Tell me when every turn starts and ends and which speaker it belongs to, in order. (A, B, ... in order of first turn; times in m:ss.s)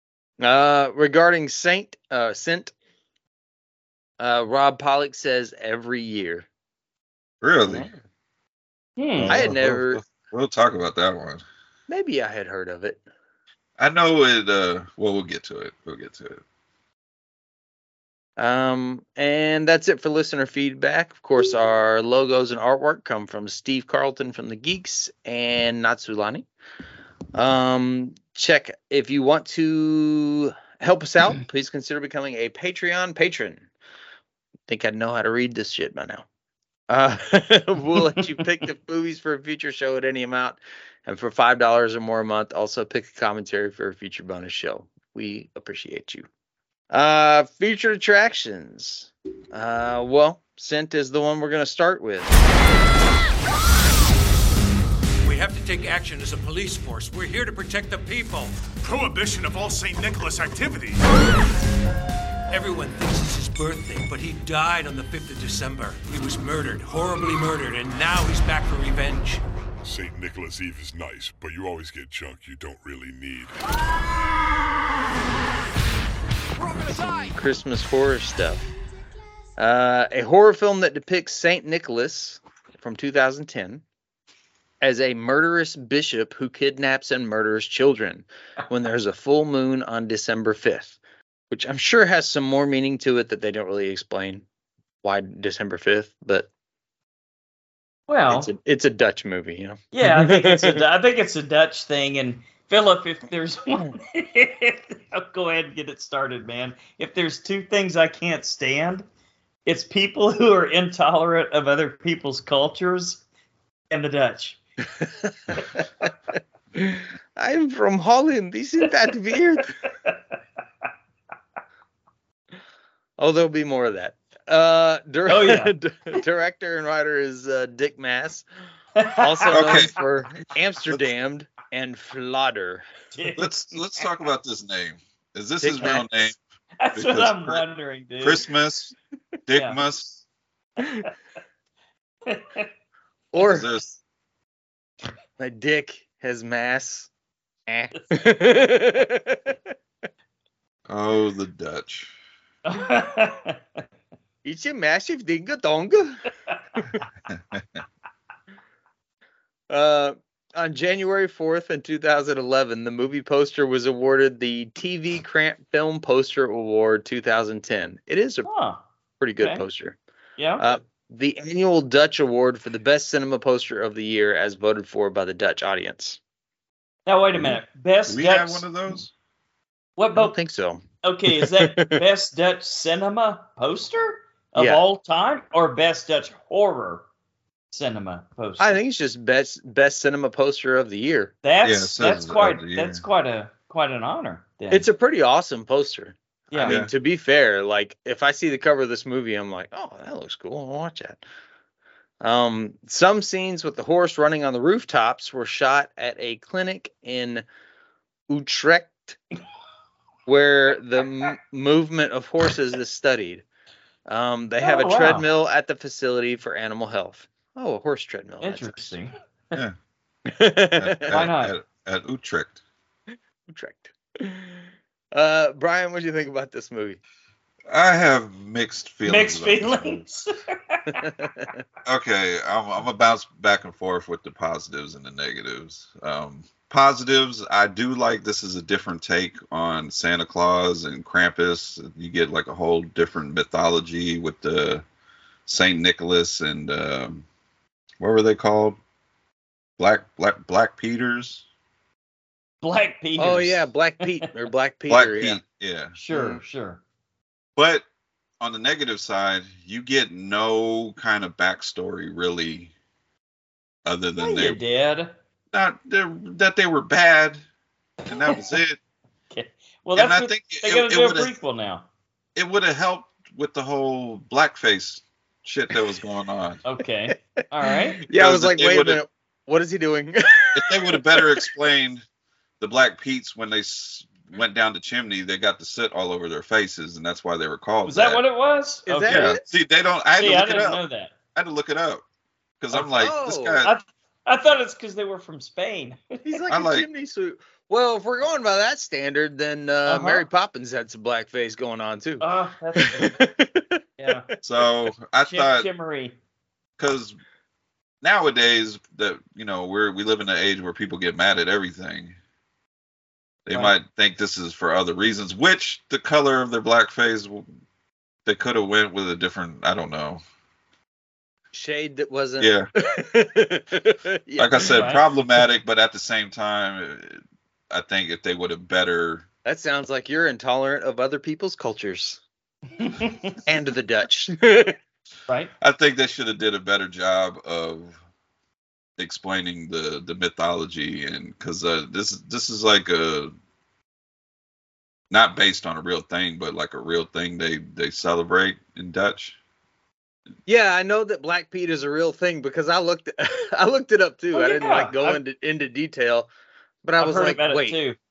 0:00.4-0:02.7 A
0:04.2-0:06.5 A
0:07.4-0:07.9 B
0:07.6-0:07.9 A
0:09.0-0:09.4 C
0:09.2-0:11.4 B
0:09.3-0:10.0 A
0:11.9-0:13.0 A
0:13.8-0:16.4 B
0:18.4-0:26.5 A
0:27.4-0:33.7 A
0:34.7-0:36.2 A
0:36.9-0:46.3 A
0:46.9-0:52.4 A
0:55.2-1:01.1 D
1:02.5-1:09.4 D
1:09.8-1:13.6 E
1:16.9-1:18.7 A
1:19.6-1:23.8 A
1:24.8-1:31.0 A
1:31.5-1:34.4 A
1:35.0-1:36.5 A
1:38.1-1:38.5 C
1:38.3-1:40.8 A
1:39.9-1:49.0 C
1:49.7-1:53.2 C
1:53.9-1:54.6 C
1:55.0-1:55.8 A
1:56.8-1:59.7 A
2:03.2-2:08.4 A
2:05.3-2:05.7 C
2:09.0-2:09.9 C
2:09.2-2:12.8 A
2:09.5-2:10.0 B
2:13.2-2:14.0 C
2:13.4-2:16.4 B
2:15.6-2:16.0 A
2:16.8-2:18.4 C
2:16.9-2:17.6 B
2:18.2-2:18.9 B
2:19.5-2:20.2 B
2:19.5-2:19.8 C
2:22.3-2:22.7 C
2:23.3-2:23.7 A
2:23.4-2:24.0 B
2:25.4-2:27.1 A
2:27.7-2:29.6 A
2:30.9-2:32.1 B
2:32.6-2:33.6 C
2:34.4-2:36.2 A
2:37.3-2:37.6 B
2:39.7-2:48.5 A
2:48.4-2:48.8 C
2:49.2-2:50.0 A
2:49.4-2:49.6 C
2:50.4-2:50.6 C
2:50.6-2:56.2 A
2:57.1-2:58.7 C
2:58.1-2:59.1 B
3:00.0-3:00.4 C
3:00.2-3:02.0 A
3:01.0-3:07.0 C
3:04.6-3:04.8 A
3:07.7-3:08.8 C
3:08.6-3:11.3 A
3:11.4-3:14.9 C
3:11.6-3:13.0 B
3:14.7-3:21.2 A
3:16.5-3:16.8 C
3:16.6-3:16.9 B
3:22.2-3:27.4 A
3:28.3-3:29.2 A
3:30.3-3:33.4 A
3:34.1-3:39.0 A
3:34.6-3:35.3 C
3:38.4-3:39.6 C
3:40.3-3:41.1 A
3:40.8-3:42.6 B
3:41.1-3:41.5 C
3:43.5-3:44.6 A
3:45.1-3:47.0 A
3:47.7-3:50.0 B
3:49.0-3:51.1 C
3:51.0-3:51.5 A
3:51.8-4:04.8 B
4:05.5-4:07.2 B
4:08.0-4:08.8 B
4:09.8-4:11.4 B
4:12.6-4:13.7 C
4:13.2-4:15.4 A
4:14.9-4:16.0 B
4:16.0-4:16.8 C
4:16.1-4:16.4 A
4:17.6-4:17.8 B
4:18.4-4:22.7 B
4:23.8-4:24.6 B
4:24.2-4:25.1 C
4:25.5-4:27.4 B
4:28.1-4:28.8 B
4:28.1-4:28.4 C
4:29.3-4:31.8 C
4:30.0-4:31.3 B
4:32.4-4:36.6 B
4:36.6-4:38.0 C
4:38.0-4:41.5 A
4:38.1-4:39.0 B
4:40.5-4:42.0 B
4:42.6-4:48.2 B
4:47.8-4:49.4 C
4:48.9-4:49.4 A
4:49.1-4:52.0 B
4:50.2-4:51.1 C
4:52.6-4:53.7 B
4:52.7-4:53.1 C
4:53.0-4:53.6 A
4:53.6-4:56.2 C
4:56.2-5:03.8 A
4:56.5-4:56.9 B
4:59.9-5:00.2 C
5:02.2-5:03.2 C
5:04.0-5:04.3 C
5:04.4-5:05.7 B
5:05.2-5:06.2 C
5:06.8-5:07.2 B
5:08.0-5:12.2 B
5:13.5-5:17.5 B
5:18.3-5:20.2 B
5:21.5-5:24.8 A
5:22.4-5:22.7 B
5:24.4-5:29.3 B
5:24.7-5:25.0 C
5:29.4-5:32.2 A
5:32.8-5:33.4 C
5:33.4-5:34.8 A
5:35.6-5:38.0 B
5:39.0-5:43.3 B
5:45.1-5:49.4 B
5:50.5-5:56.3 A
5:54.3-5:55.2 C
5:56.8-5:57.8 A
5:57.0-5:58.0 C